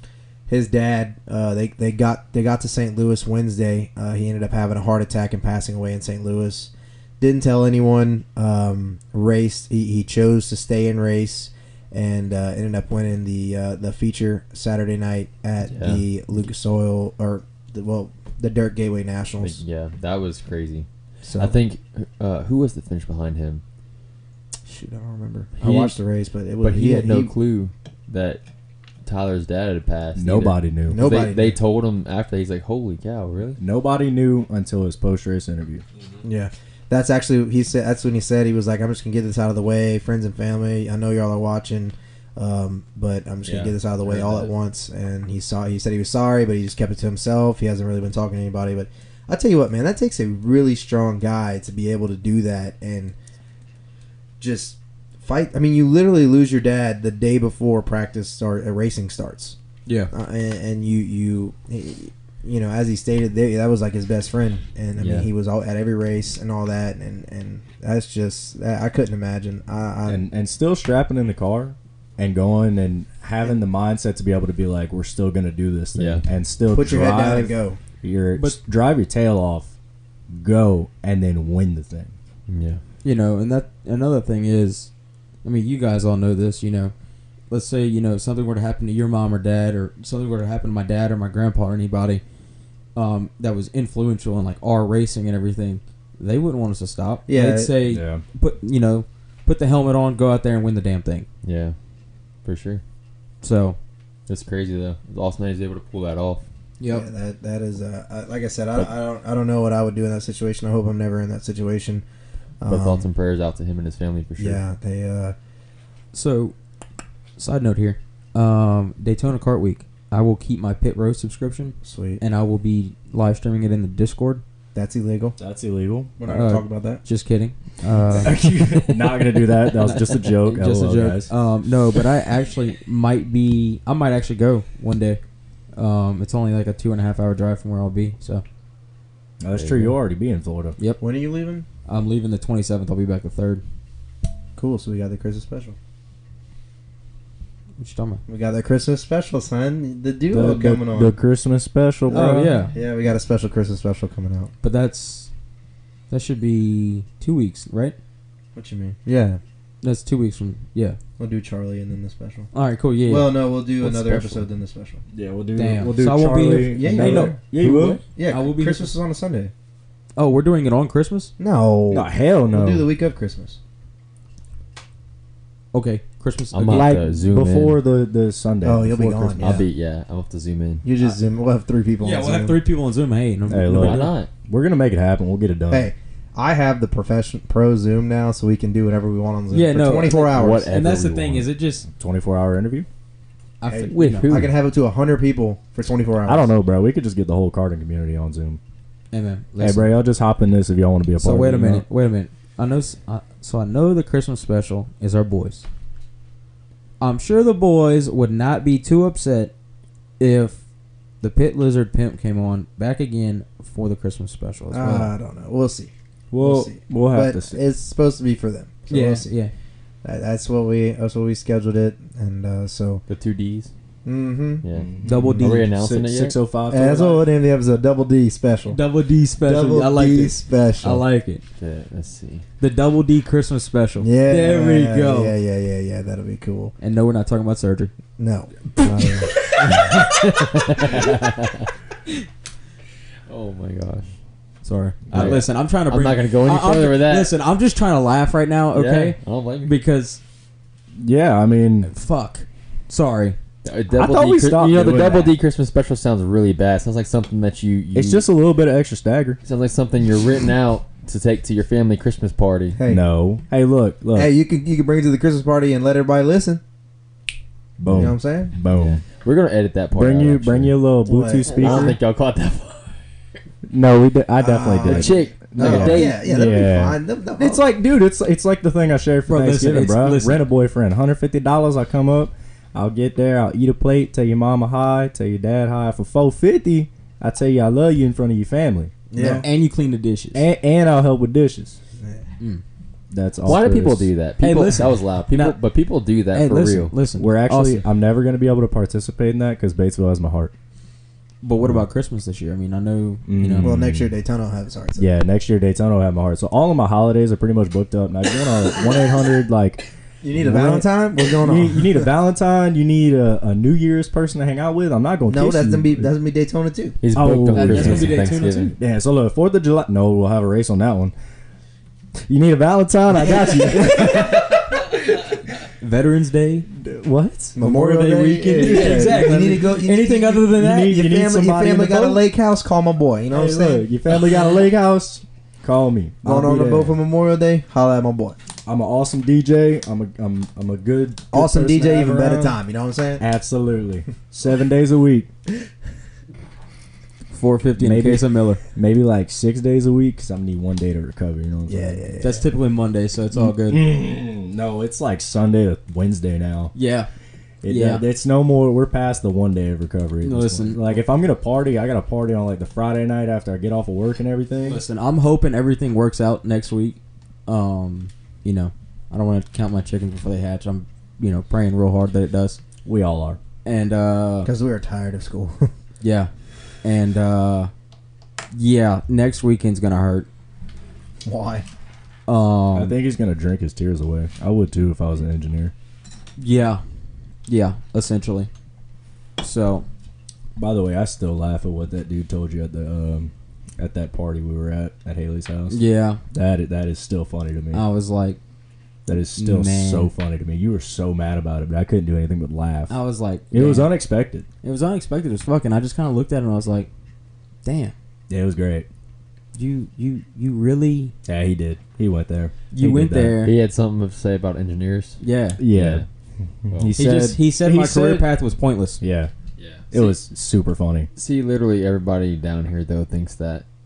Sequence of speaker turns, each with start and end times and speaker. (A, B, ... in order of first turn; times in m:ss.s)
0:00.5-0:19.6 A
0:15.7-0:16.1 B
0:19.4-0:23.6 B
0:21.2-0:21.6 A
0:24.6-0:27.3 A
0:25.6-0:26.0 B
0:26.6-0:28.4 B
0:29.0-0:33.6 B
0:30.2-0:31.0 C
0:30.9-0:31.6 A
0:33.6-0:35.8 C
0:36.2-0:53.2 A
0:43.4-0:44.5 B
0:54.4-0:59.6 A
0:59.9-1:00.1 D
1:00.1-1:10.2 A
1:05.0-1:05.3 B
1:10.1-1:19.7 C
1:16.0-1:16.2 B
1:16.7-1:17.8 A
1:20.3-1:22.1 C
1:22.5-1:22.8 B
1:23.0-1:24.9 D
1:25.4-1:26.9 D
1:27.5-1:32.2 D
1:33.0-1:41.3 D
1:37.3-1:37.8 A
1:37.8-1:38.2 C
1:41.4-1:41.8 B
1:42.4-1:42.8 B
1:43.4-1:43.8 D
1:44.3-1:46.4 B
1:46.8-1:47.1 D
1:46.9-1:52.0 A
1:52.6-1:53.0 A
1:52.7-1:54.6 B
1:54.4-1:55.4 A
1:56.1-1:56.6 D
1:57.4-2:04.4 D
2:01.8-2:02.2 A
2:04.7-2:05.4 A
2:05.4-2:06.1 C
2:06.2-2:07.0 A
2:06.3-2:09.2 D
2:08.2-2:11.3 C
2:09.7-2:15.2 D
2:15.8-2:18.4 D
2:19.4-2:20.8 C
2:19.5-2:20.0 B
2:21.0-2:21.7 A
2:21.9-2:23.6 D
2:24.6-2:25.8 A
2:27.8-2:28.2 D
2:28.3-2:31.1 A
2:30.3-2:32.5 C
2:32.1-2:34.5 A
2:32.1-2:32.7 D
2:34.6-2:35.3 D
2:36.1-2:38.0 D
2:38.6-2:39.4 A
2:39.8-2:41.0 D
2:41.2-2:42.5 A
2:42.5-2:44.4 D
2:43.0-2:45.0 A
2:43.8-2:44.2 B
2:45.1-2:48.0 C
2:45.6-2:48.9 D
2:46.7-2:47.4 A
2:48.2-2:49.5 A
2:50.2-2:51.3 D
2:51.4-2:53.6 A
2:51.9-2:52.9 C
2:55.7-2:56.9 D
2:56.5-2:57.8 B
2:56.7-2:59.6 C
2:58.6-2:59.7 A
2:59.4-3:00.8 B
3:00.8-3:02.6 A
3:02.0-3:04.1 D
3:03.5-3:05.9 C
3:03.7-3:04.3 B
3:05.7-3:10.7 A
3:09.5-3:11.9 D
3:10.0-3:11.5 B
3:11.9-3:12.9 C
3:13.6-3:14.4 D
3:13.7-3:16.5 A
3:13.9-3:14.6 B
3:16.2-3:18.6 C
3:19.1-3:19.9 D
3:19.6-3:21.8 C
3:21.2-3:25.6 D
3:27.0-3:29.5 D
3:30.2-3:30.6 D
3:31.2-3:35.1 D
3:34.7-3:39.3 A
3:36.3-3:37.6 C
3:38.9-3:39.5 D
3:40.0-3:43.0 A
3:43.1-3:43.7 B
3:44.0-3:44.6 A
3:44.6-3:44.9 B
3:44.8-3:47.2 C
3:45.0-3:45.7 D
3:45.4-3:46.4 B
3:46.7-3:48.8 A
3:48.7-3:51.4 D
3:49.4-3:51.0 A
3:51.6-3:52.4 B
3:52.6-3:55.4 D
3:54.0-3:56.8 A
3:56.8-3:57.9 D
3:58.2-3:59.3 A
3:59.6-4:01.7 B
4:03.3-4:04.1 B
4:04.6-4:10.2 D
4:05.1-4:05.4 C
4:05.1-4:07.3 B
4:08.7-4:09.7 B
4:11.0-4:11.9 C
4:11.9-4:13.4 D
4:13.6-4:18.3 B
4:13.9-4:15.3 C
4:18.0-4:19.4 C
4:19.4-4:22.8 B
4:22.8-4:23.0 A
4:22.9-4:24.3 C
4:24.1-4:26.6 A
4:27.8-4:29.0 C
4:27.9-4:28.1 B
4:27.9-4:28.5 A
4:28.7-4:30.8 B
4:30.0-4:32.0 C
4:31.1-4:32.0 A
4:31.4-4:32.9 B
4:33.7-4:49.5 C
4:34.4-4:37.6 A
4:34.8-4:36.2 B
4:39.3-4:40.4 D
4:49.1-4:49.5 A
4:49.4-4:50.4 D
4:50.3-4:51.8 C
4:53.1-4:54.1 C
4:53.4-4:56.9 B
4:54.4-4:55.6 D
4:56.3-4:57.8 D
4:57.2-5:00.5 C
5:01.4-5:03.7 D
5:03.3-5:04.1 C
5:03.6-5:05.1 A
5:05.0-5:10.9 C
5:10.2-5:12.1 A
5:11.4-5:16.1 C
5:15.3-5:17.0 A
5:17.0-5:18.7 B
5:17.1-5:21.1 C
5:17.5-5:18.7 D
5:22.3-5:24.8 C
5:25.8-5:26.7 D
5:26.8-5:29.4 C
5:27.6-5:33.8 A
5:28.6-5:31.0 D
5:30.6-5:32.2 C
5:33.3-5:37.0 C
5:36.2-5:38.4 A
5:38.7-5:42.6 C
5:41.3-5:43.2 A
5:43.2-5:45.3 C
5:47.3-5:48.6 D
5:47.8-5:52.1 C
5:51.7-5:52.5 A
5:52.2-5:53.9 D
5:53.3-5:56.7 C
5:56.7-5:57.1 D
5:57.6-6:04.8 C
5:57.7-5:58.0 D
6:00.2-6:00.9 D
6:04.6-6:12.6 D
6:12.8-6:13.4 C
6:13.6-6:14.5 D
6:14.4-6:15.7 A
6:16.0-6:16.3 D
6:16.8-6:17.7 D
6:18.5-6:20.3 D
6:21.2-6:21.7 A
6:22.3-6:23.0 D
6:22.7-6:25.7 C
6:26.4-6:26.8 D
6:27.5-6:28.5 D
6:29.4-6:29.9 D
6:30.6-6:35.8 C
6:35.7-6:36.2 D
6:36.3-6:37.8 C
6:37.7-6:38.4 D
6:39.1-6:43.0 C
6:39.3-6:40.1 D
6:42.9-6:43.9 D
6:43.5-6:44.5 C
6:44.6-6:46.9 D
6:47.6-6:47.9 D
6:48.3-6:48.9 C
6:49.6-6:51.1 D
6:51.3-6:53.4 C
6:52.7-6:53.6 D
6:53.4-6:55.2 B
6:55.2-6:55.6 D
6:55.6-6:56.0 C
6:55.7-6:56.1 B
6:56.6-6:58.3 C
6:56.7-6:57.0 B
6:57.0-6:59.0 D
6:59.0-6:59.3 C
6:59.6-7:00.1 B
6:59.9-7:01.1 C
7:01.2-7:03.6 B